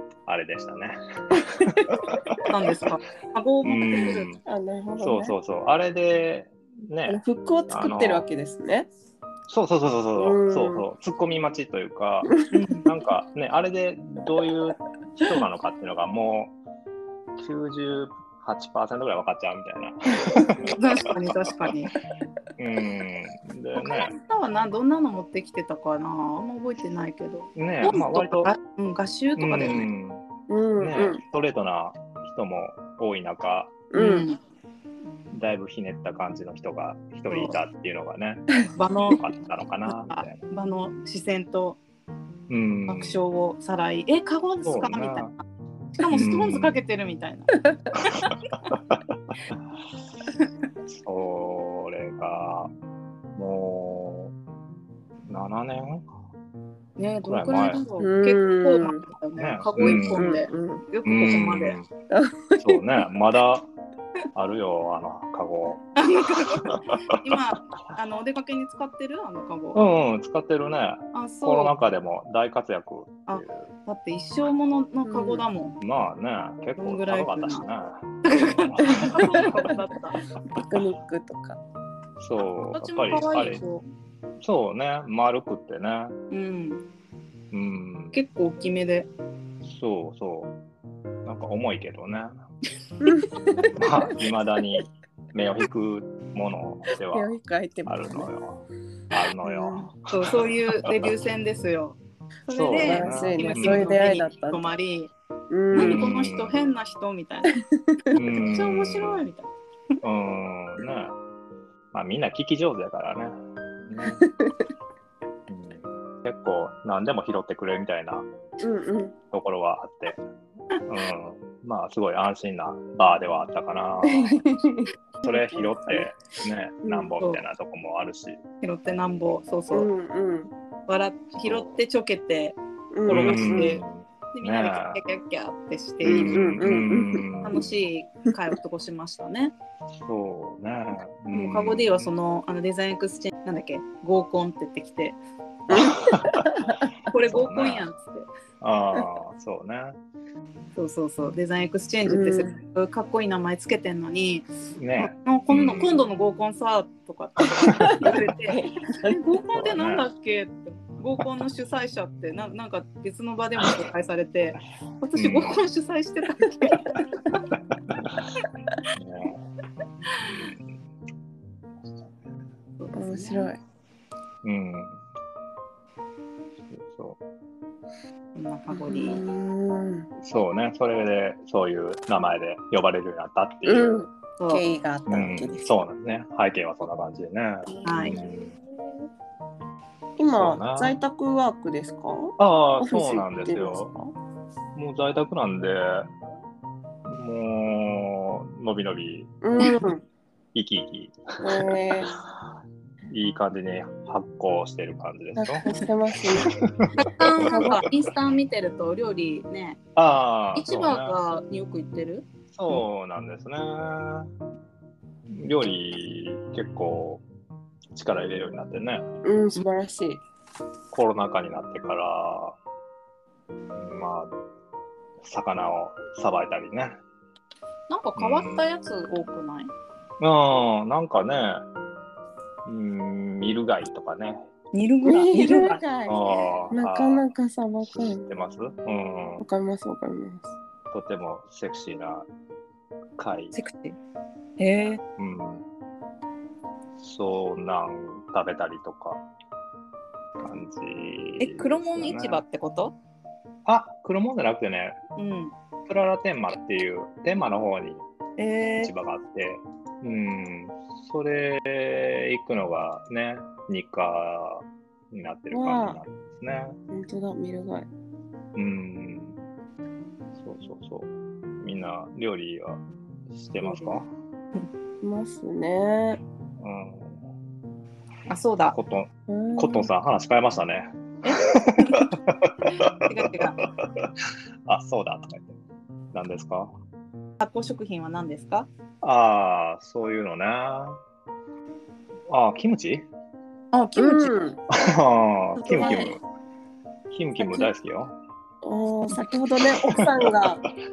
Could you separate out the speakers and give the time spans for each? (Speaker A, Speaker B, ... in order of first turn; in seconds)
Speaker A: 0.3-2.5, 3.6-4.4, 5.0-8.3, 9.5-16.5, 17.4-21.5, 22.6-24.2, 27.6-28.5, 29.4-30.2, 30.8-33.8, 35.3-38.5, 39.1-40.4, 42.5-43.2, 44.7-45.3, 46.1-46.8, 48.1-49.0, 50.9-52.7, 53.4-54.3, 55.3-56.1, 57.2-57.8, 59.4-60.3, 61.0-61.9, 62.6-63.7, 64.3-67.3, 69.8-73.7, 75.8-79.6, 82.2-83.6, 84.4-86.2, 87.5-88.2, 89.6-90.5, 91.2-92.3, 93.8-97.3, 97.9-98.6, 99.1-100.3, 102.5-104.0, 105.7-106.5, 108.1-109.3, 110.0-111.1, 111.9-114.2, 115.5-118.3, 119.3-120.2, 120.9-124.6, 125.2-128.4, 131.4-131.8, 133.1-135.0, 136.0-137.8, 140.0-142.1, 145.7-146.5, 147.3-147.9, 148.6-150.0, 154.8-156.0, 159.5-160.1, 165.2-165.6, 168.9-169.4, 170.2-170.7, 174.4-175.0, 176.7-177.2, 180.2-184.0, 185.1-188.5, 190.3-191.0, 192.4-193.9, 194.8-196.1, 197.1-199.3, 200.5-202.2, 203.1-205.7, 206.4-207.9, 210.0-211.2, 212.5-214.3, 215.3-217.2, 217.9-219.0, 220.9-222.6, 223.8-224.3, 225.2-227.0, 228.2-228.7, 230.2-231.6, 232.7-234.4, 236.1-237.2, 237.8-239.4, 240.9-242.3, 243.2-243.6, 244.8-245.7, 247.0-249.2, 250.4-252.4, 253.7-255.0, 255.9-258.0, 258.8-266.8, 268.6-269.4, 270.4-274.1, 276.6-277.2, 278.7-284.1, 284.7-285.6, 286.1-286.7, 289.0-291.0, 292.3-293.1, 294.7-296.2, 297.1-298.1, 299.8-300.5
Speaker B: 1.3-2.0, 4.5-5.3, 7.1-8.9, 10.2-10.9, 30.5-31.2, 33.9-34.3, 58.0-59.0, 59.8-60.9, 62.1-63.0, 75.0-75.5, 80.5-81.6, 93.0-94.1, 97.1-98.3, 99.4-99.9, 102.8-104.7, 105.5-106.1, 114.0-114.5, 118.6-119.1, 124.0-126.1, 126.8-127.1, 129.7-130.5, 132.9-133.8, 136.1-137.3, 145.7-146.8, 152.1-152.6, 158.1-159.2, 172.9-173.6, 178.7-180.1, 183.7-185.7, 187.8-188.5, 190.2-194.1, 199.4-200.0, 201.4-202.1, 205.4-206.5, 207.4-207.8, 219.2-220.2, 235.0-238.2, 239.4-240.5, 265.5-266.0, 266.9-267.9, 275.0-276.2, 279.3-279.9, 294.0-294.6, 295.8-296.1, 297.4-297.7, 298.6-300.6
Speaker C: 2.5-4.3, 12.5-12.9, 20.8-21.9, 23.8-29.9, 34.0-34.4, 37.3-37.6, 38.8-39.2, 39.9-41.8, 42.9-45.3, 46.0-48.3, 57.0-61.8, 66.0-69.8, 71.1-71.8, 73.3-75.8, 76.8-77.7, 78.2-80.2, 82.7-83.8, 86.3-86.8, 88.1-89.1, 100.1-105.1, 105.7-107.6, 108.4-109.5, 128.6-129.9, 130.9-133.8, 134.3-136.6, 137.4-139.5, 141.3-145.2, 147.1-148.3, 150.8-167.4, 172.8-173.5, 178.3-179.2, 184.4-184.7, 187.8-188.2, 207.0-209.8, 210.6-212.8, 227.9-229.7, 234.7-235.8, 243.5-244.0, 244.6-245.0, 251.4-252.9, 255.2-255.5, 258.4-258.9, 278.3-278.8, 281.2-282.1, 283.1-283.6, 287.4-288.7, 293.7-294.4, 295.6-296.1